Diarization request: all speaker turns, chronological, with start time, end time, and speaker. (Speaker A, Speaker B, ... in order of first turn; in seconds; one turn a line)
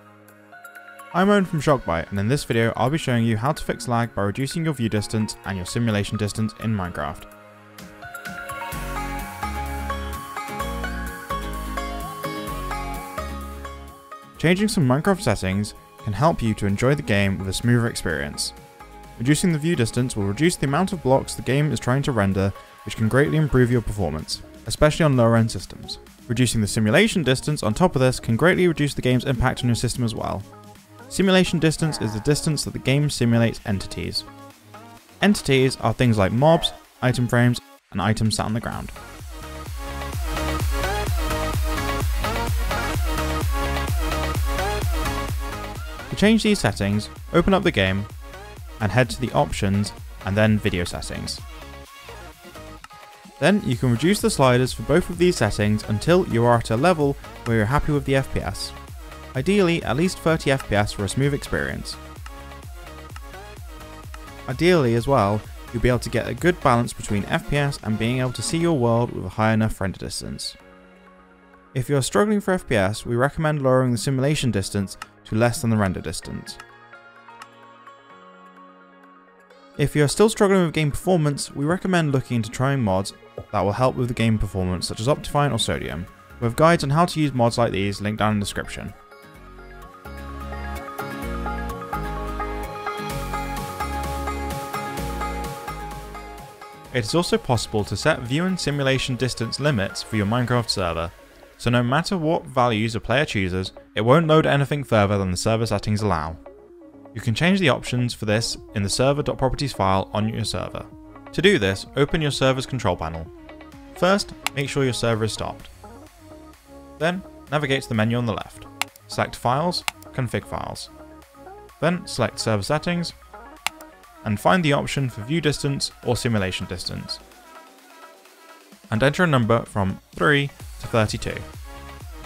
Speaker A: 1.1-7.3
Speaker A: 14.4-18.6
Speaker A: 19.2-30.5
Speaker A: 31.1-34.3
Speaker A: 35.2-38.9
Speaker A: 46.1-48.1
Speaker A: 48.8-51.4
Speaker A: 53.4-58.8
Speaker A: 59.3-62.0
Speaker A: 64.5-70.6
Speaker A: 71.7-76.6
Speaker A: 79.8-89.0
Speaker A: 96.9-106.4
Speaker A: 107.1-113.3
Speaker A: 113.9-115.7
Speaker A: 117.0-120.9
Speaker A: 121.8-123.2
Speaker A: 124.2-127.2
Speaker A: 128.9-131.5